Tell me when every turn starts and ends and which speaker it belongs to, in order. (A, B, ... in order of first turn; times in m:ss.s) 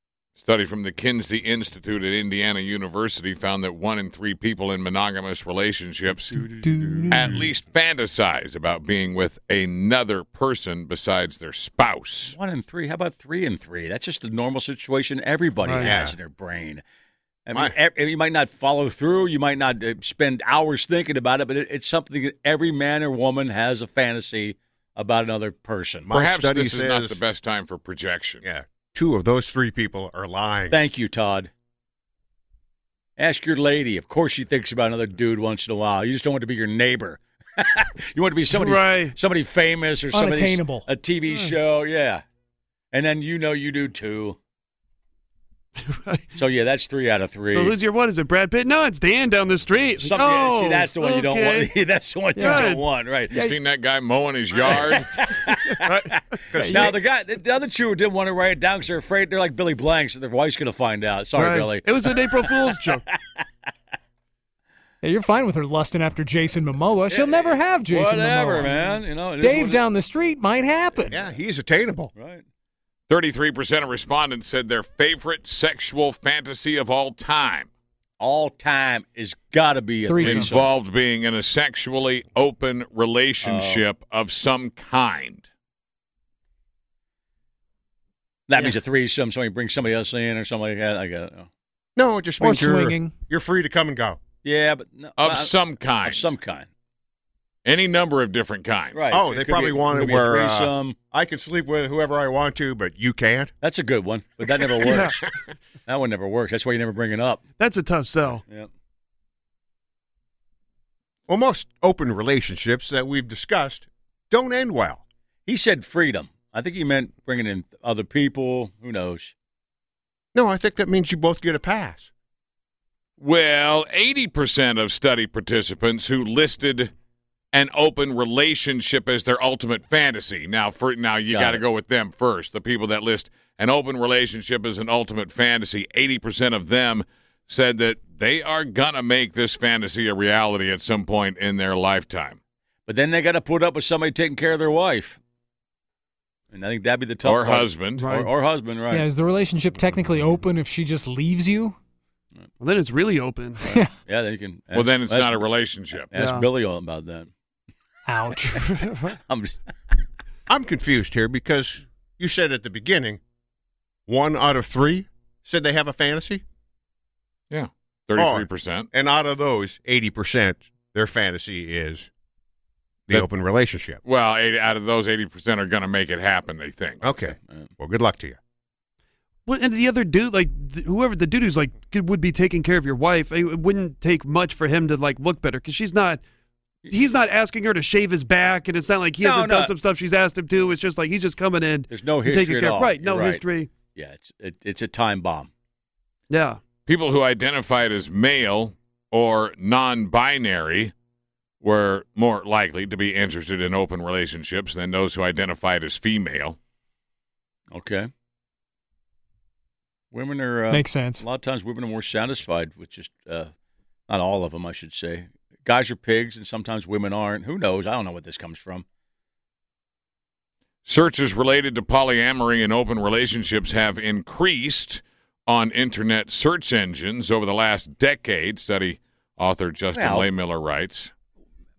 0:00.4-0:06.3 A
0:06.3-0:07.5 B
0:06.6-0:07.4 C
0:07.1-0:12.4 A
0:12.3-0:16.8 B
0:15.6-0:15.9 D
0:15.8-0:16.2 E
0:17.4-0:26.1 B
0:26.1-0:27.2 E
0:26.1-0:28.4 A
0:28.4-0:30.8 E
0:30.7-0:31.5 B
0:33.2-0:42.2 B
0:38.5-0:39.1 D
0:40.1-0:40.9 C
0:41.3-0:41.5 D
0:42.9-0:44.4 B
0:45.8-0:46.3 D
0:46.4-0:47.8 B
0:47.5-0:51.7 D
0:50.0-0:53.4 B
0:52.4-0:52.7 C
0:52.4-0:52.9 D
0:53.3-0:55.1 A
0:53.3-0:53.6 C
0:54.5-0:56.0 B
0:55.8-0:56.8 D
0:56.5-0:56.9 E
0:56.6-0:57.0 C
0:56.7-1:03.4 B
1:01.4-1:03.0 D
1:05.0-1:11.2 C
1:07.1-1:09.8 B
1:10.9-1:11.4 B
1:11.1-1:12.1 E
1:12.1-1:12.4 B
1:13.1-1:17.7 A
1:18.2-1:20.7 B
1:20.0-1:20.6 C
1:20.2-1:25.5 A
1:23.4-1:23.8 B
1:28.5-1:31.5 B
1:32.0-1:34.2 E
1:32.4-1:33.1 C
1:34.4-1:36.7 B
1:35.2-1:36.3 A
1:37.6-1:39.1 A
1:38.9-1:41.0 B
1:39.1-1:43.5 E
1:43.6-1:45.2 B
1:44.8-1:45.1 D
1:45.8-1:47.4 B
1:47.6-1:48.4 D
1:51.3-1:55.0 E
1:55.5-1:59.3 B
2:00.3-2:02.1 E
2:03.2-2:06.9 A
2:07.5-2:22.4 A
2:11.3-2:11.6 B
2:22.9-2:25.2 B
2:26.5-2:29.1 B
2:27.2-2:28.1 A
2:28.0-2:28.3 D
2:28.9-2:31.8 C
2:32.6-2:33.6 D
2:33.6-2:37.3 B
2:33.6-2:33.9 C
2:34.7-2:36.2 A
2:36.2-2:36.4 D
2:38.0-2:38.7 C
2:39.3-2:39.9 B
2:40.5-2:43.2 E
2:44.1-2:46.4 E
2:47.5-2:48.9 A
2:48.2-2:52.1 E
2:53.1-2:54.0 E
2:54.0-2:57.0 A
2:57.0-2:58.4 E
2:57.4-2:57.7 B
2:59.4-3:06.2 D
3:06.9-3:13.7 D
3:09.2-3:09.7 B
3:11.9-3:15.5 B
3:16.3-3:16.6 D
3:16.8-3:20.9 A
3:21.6-3:26.6 A
3:27.7-3:28.1 B
3:30.1-3:33.5 B
3:30.7-3:31.2 C
3:34.1-3:38.8 B
3:40.8-3:51.1 A
3:49.9-3:50.3 B